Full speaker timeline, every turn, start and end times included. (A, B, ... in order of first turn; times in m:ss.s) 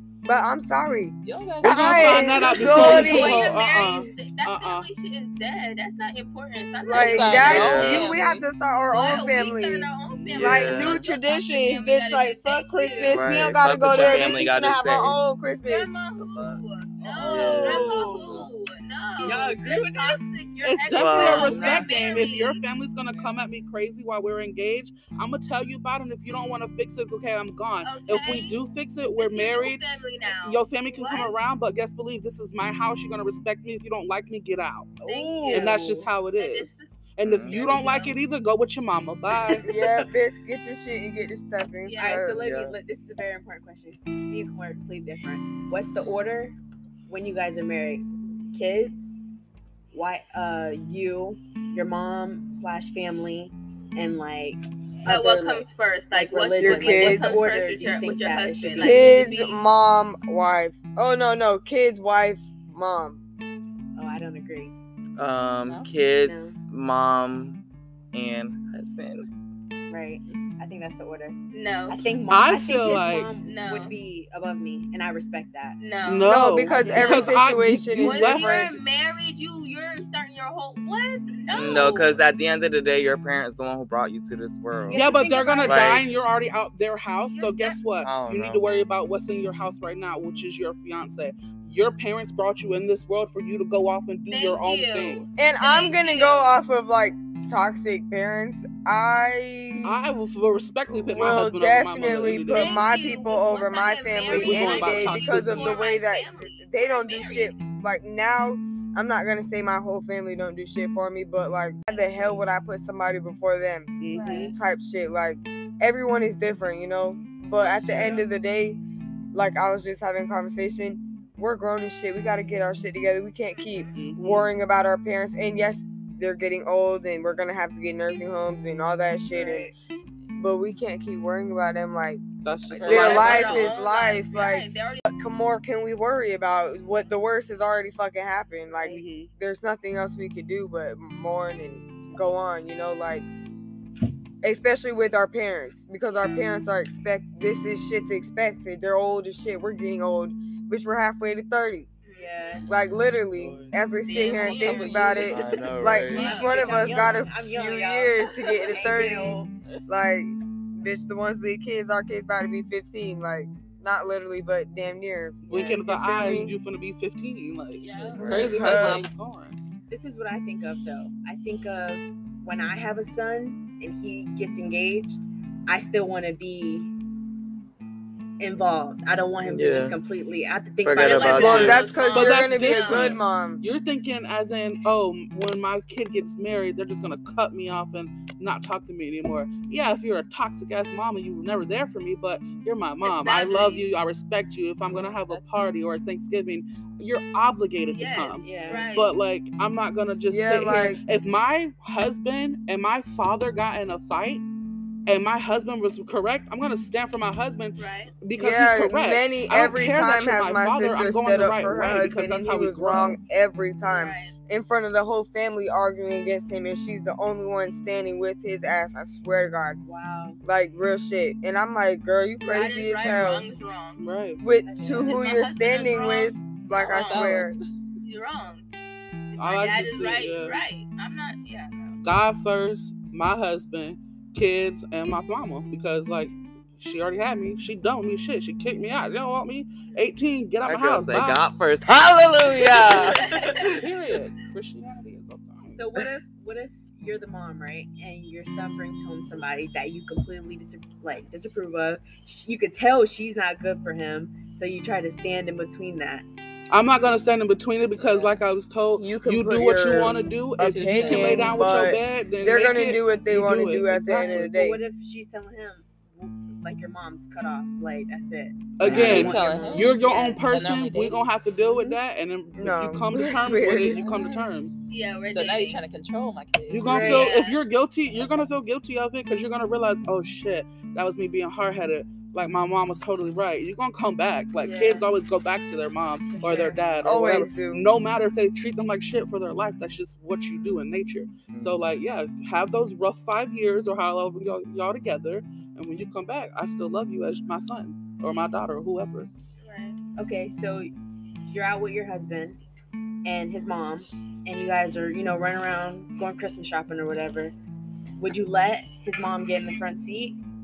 0:00.2-0:03.5 A
0:01.2-0:03.2 B
0:01.6-0:04.9 C
0:02.7-0:08.2 D
0:06.9-0:16.0 A
0:06.9-0:08.5 B
0:07.4-0:08.1 E
0:08.9-0:13.3 D
0:10.2-0:11.0 E
0:13.1-0:15.2 E
0:13.8-0:14.5 D
0:15.6-0:22.6 D
0:17.0-0:18.5 F
0:17.2-0:17.9 E
0:17.3-0:18.0 C
0:19.2-0:20.4 F
0:20.6-0:35.0 C
0:20.9-0:21.9 E
0:21.4-0:22.0 F
0:23.1-0:23.4 B
0:27.8-0:28.6 D
0:29.2-0:31.4 D
0:35.0-0:36.1 F
0:35.0-0:36.9 D
0:35.5-0:39.8 C
0:37.2-0:37.6 E
0:37.5-0:38.2 D
0:39.6-0:42.5 A
0:41.8-0:42.5 D
0:42.0-0:46.6 F
0:42.4-0:42.8 E
0:47.1-0:49.2 F
0:49.9-0:59.4 F
0:55.1-0:59.6 D
0:56.6-0:57.4 A
0:58.8-1:03.2 A
1:04.0-1:04.7 F
1:05.2-1:07.6 E
1:05.7-1:06.0 B
1:06.2-1:06.6 F
1:08.1-1:09.3 E
1:09.9-1:11.4 F
1:11.5-1:12.0 D
1:11.9-1:15.8 F
1:12.3-1:13.3 C
1:13.4-1:13.9 D
1:15.8-1:17.5 D
1:16.0-1:18.8 C
1:16.3-1:18.7 A
1:16.8-1:17.3 F
1:18.0-1:22.2 D
1:21.5-1:25.1 E
1:24.8-1:26.0 F
1:25.0-1:35.3 C
1:25.6-1:26.1 E
1:27.3-1:27.8 D
1:28.0-1:28.6 E
1:34.3-1:36.6 D
1:35.4-1:40.0 A
1:39.8-1:42.9 C
1:41.1-1:58.8 A
1:42.5-1:47.6 D
1:44.3-1:45.8 C
1:54.0-1:54.6 C
1:54.1-1:54.5 D
1:57.6-1:58.3 C
1:59.3-2:09.7 A
2:03.6-2:03.9 D
2:03.9-2:04.5 C
2:09.3-2:09.7 F
2:10.4-2:12.2 A
2:12.4-2:13.8 C
2:12.7-2:13.3 F
2:12.8-2:15.0 D
2:12.8-2:23.3 A
2:18.8-2:19.3 C
2:24.4-2:31.9 A
2:32.0-2:32.7 D
2:32.2-2:32.7 F
2:32.7-2:46.6 A
2:33.4-2:33.7 C
2:34.0-2:36.9 D
2:34.2-2:35.3 F
2:35.1-2:36.4 E
2:36.1-2:39.5 F
2:45.4-2:49.6 C
2:47.8-2:48.6 D
2:48.2-2:48.7 E
2:48.3-2:49.0 F
2:48.3-2:49.0 A
2:49.9-2:56.9 F
2:58.4-3:01.8 F
2:59.4-3:00.0 E
3:00.8-3:01.9 E
3:01.0-3:03.2 D
3:01.4-3:03.6 A
3:02.0-3:24.4 C
3:13.0-3:13.9 D
3:14.8-3:15.8 B
3:17.9-3:19.2 D
3:18.4-3:18.9 F
3:20.3-3:21.0 A
3:25.1-3:33.2 C
3:27.8-3:28.2 D
3:28.4-3:39.8 A
3:33.8-3:34.3 D
3:39.8-3:40.4 F
3:40.4-3:43.5 A
3:42.4-3:44.0 D
3:44.0-3:44.4 C
3:44.4-3:47.5 A
3:44.6-3:45.2 F
3:45.0-3:47.4 D
3:46.9-3:47.7 B
3:48.0-3:48.6 D
3:49.3-3:52.0 D
3:49.4-3:50.6 C
3:52.0-4:01.4 C
4:00.6-4:03.9 E
4:02.8-4:03.6 D
4:03.7-4:06.0 C
4:05.7-4:16.3 F
4:16.7-4:24.5 C
4:18.0-4:18.4 F
4:19.0-4:24.8 A
4:20.6-4:21.7 B
4:24.2-4:28.6 F
4:28.8-4:34.8 C
4:28.8-4:29.5 E
4:28.9-4:31.3 B
4:29.2-4:30.0 F
4:31.6-4:32.0 F
4:32.6-4:34.0 A
4:33.8-4:34.5 B
4:34.9-4:35.8 D
4:35.3-4:37.2 B
4:36.7-4:59.3 C
4:36.8-4:37.4 F
4:37.0-4:37.6 D
4:44.6-4:45.0 F
4:46.5-4:46.7 F
4:47.0-4:47.8 A
4:51.5-4:51.8 E
4:59.6-5:00.0 D
5:00.2-5:00.9 F
5:01.5-5:02.6 F
5:03.2-5:07.5 F
5:08.2-5:10.4 F